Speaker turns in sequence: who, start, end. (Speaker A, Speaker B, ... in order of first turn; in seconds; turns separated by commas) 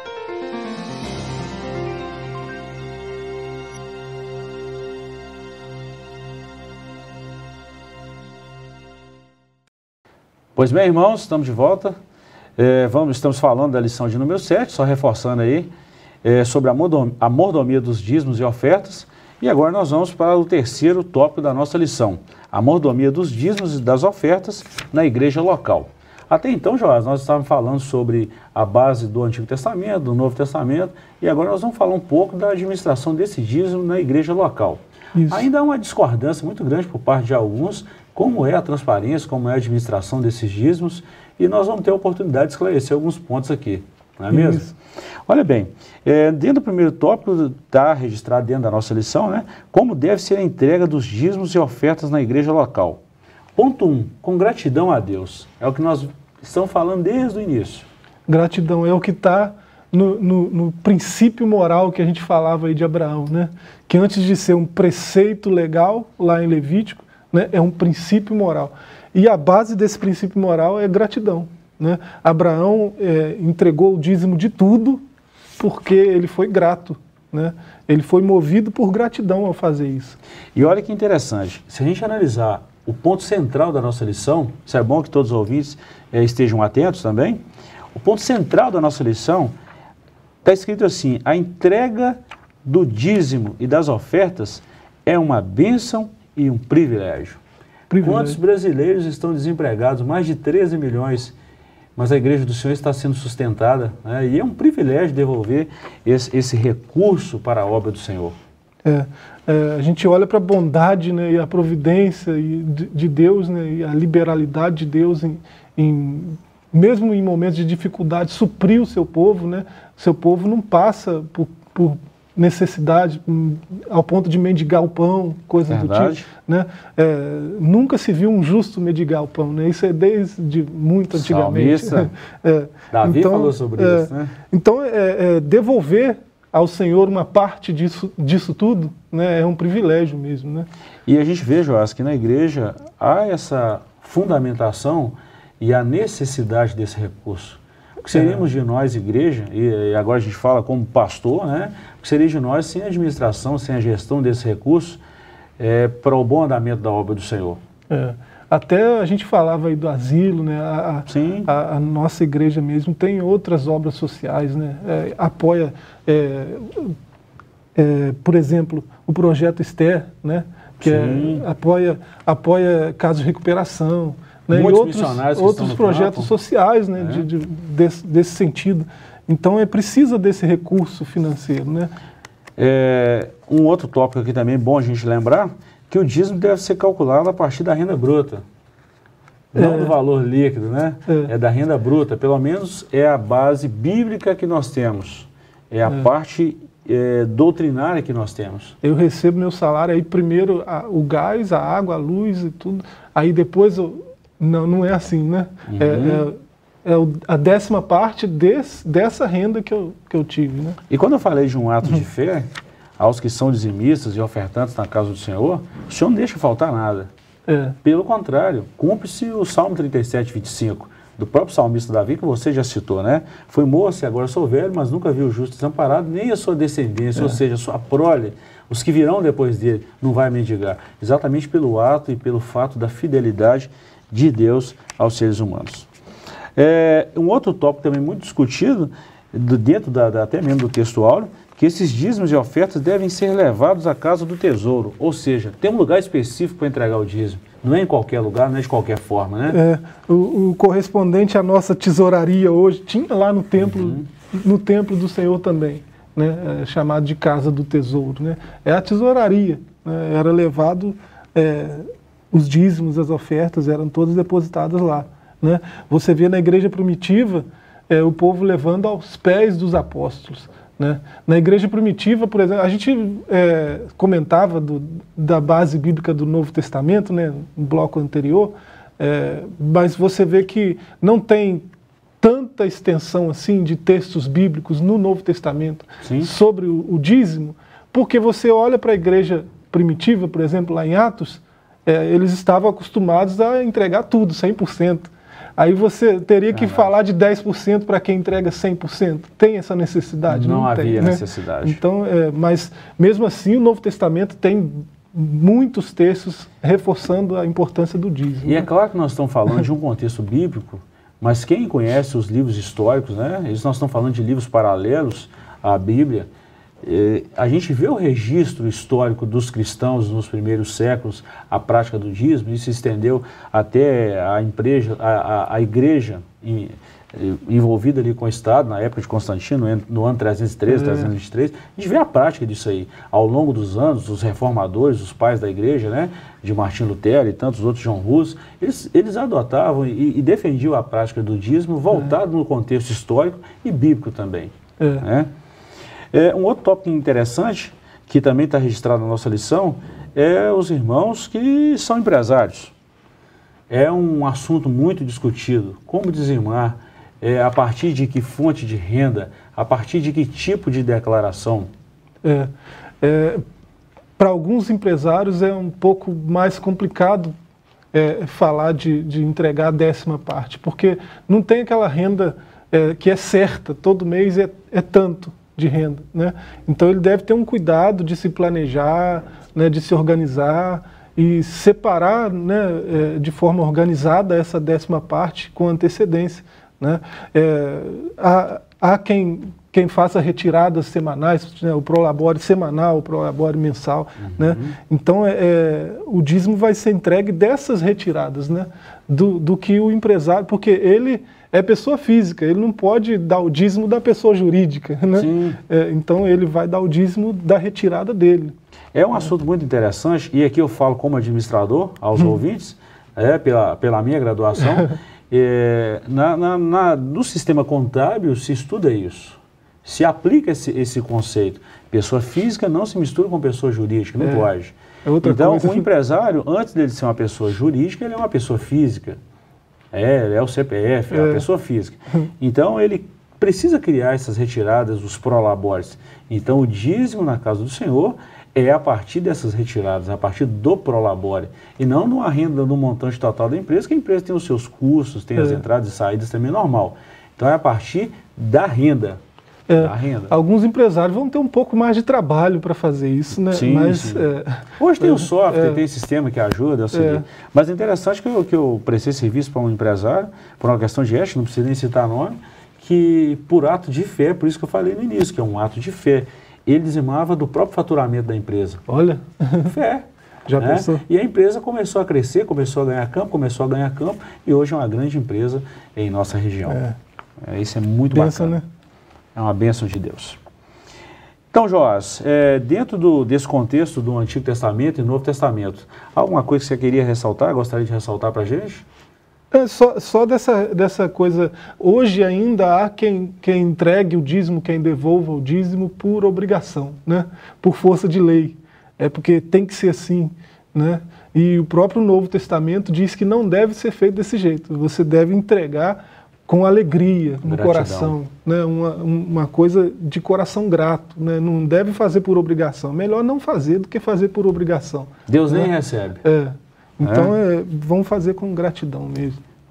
Speaker A: 10.6-12.0, Speaker A: 12.6-15.7, Speaker A: 16.2-44.7, Speaker B: 35.1-35.5, Speaker B: 44.3-44.7, Speaker A: 45.3-53.0, Speaker A: 53.6-57.9, Speaker B: 58.3-75.0, Speaker B: 75.6-80.2, Speaker A: 80.5-87.4, Speaker A: 87.9-89.5, Speaker A: 90.4-97.4, Speaker B: 97.9-98.4, Speaker A: 98.0-101.3, Speaker A: 102.0-108.4, Speaker B: 108.8-140.7, Speaker A: 125.7-126.3, Speaker A: 131.1-132.1, Speaker A: 132.9-134.3, Speaker A: 141.1-155.0, Speaker B: 148.1-148.4, Speaker A: 155.6-157.6, Speaker B: 157.9-167.0, Speaker A: 161.1-161.5, Speaker B: 167.8-181.9, Speaker A: 170.8-171.4, Speaker A: 174.5-176.3, Speaker A: 177.0-177.3, Speaker A: 182.6-188.4, Speaker A: 189.5-198.8, Speaker B: 189.6-189.9, Speaker B: 198.8-210.8, Speaker A: 205.7-206.3, Speaker A: 210.9-217.1, Speaker B: 217.5-217.8, Speaker A: 217.8-235.9, Speaker A: 236.6-249.6, Speaker B: 249.5-281.7, Speaker A: 253.6-254.1, Speaker B: 282.2-308.6, Speaker A: 286.0-286.3, Speaker A: 296.5-296.9, Speaker A: 300.3-301.8, Speaker A: 308.4-316.3, Speaker A: 316.8-345.3, Speaker B: 330.7-331.1, Speaker B: 344.8-345.1, Speaker A: 346.1-352.7, Speaker A: 353.7-361.7, Speaker B: 362.2-362.5, Speaker B: 363.0-363.4, Speaker B: 364.2-367.3, Speaker B: 367.9-408.5, Speaker A: 394.2-394.8, Speaker A: 405.1-405.6, Speaker A: 408.9-429.2, Speaker B: 424.2-424.5, Speaker B: 425.1-425.9, Speaker A: 429.9-449.2, Speaker B: 431.1-431.4, Speaker B: 445.4-445.6, Speaker B: 449.7-455.8, Speaker A: 449.8-450.3, Speaker A: 453.5-454.2, Speaker A: 454.8-468.8, Speaker B: 456.9-457.2, Speaker B: 468.9-469.7, Speaker A: 469.6-470.1, Speaker B: 470.5-471.0, Speaker A: 470.6-476.8, Speaker B: 476.7-477.0, Speaker A: 477.4-478.6, Speaker B: 478.1-478.6, Speaker A: 479.4-480.4, Speaker A: 481.5-488.9, Speaker B: 489.5-515.7, Speaker A: 507.4-508.2, Speaker A: 515.3-516.2, Speaker B: 516.2-519.4, Speaker A: 517.0-517.3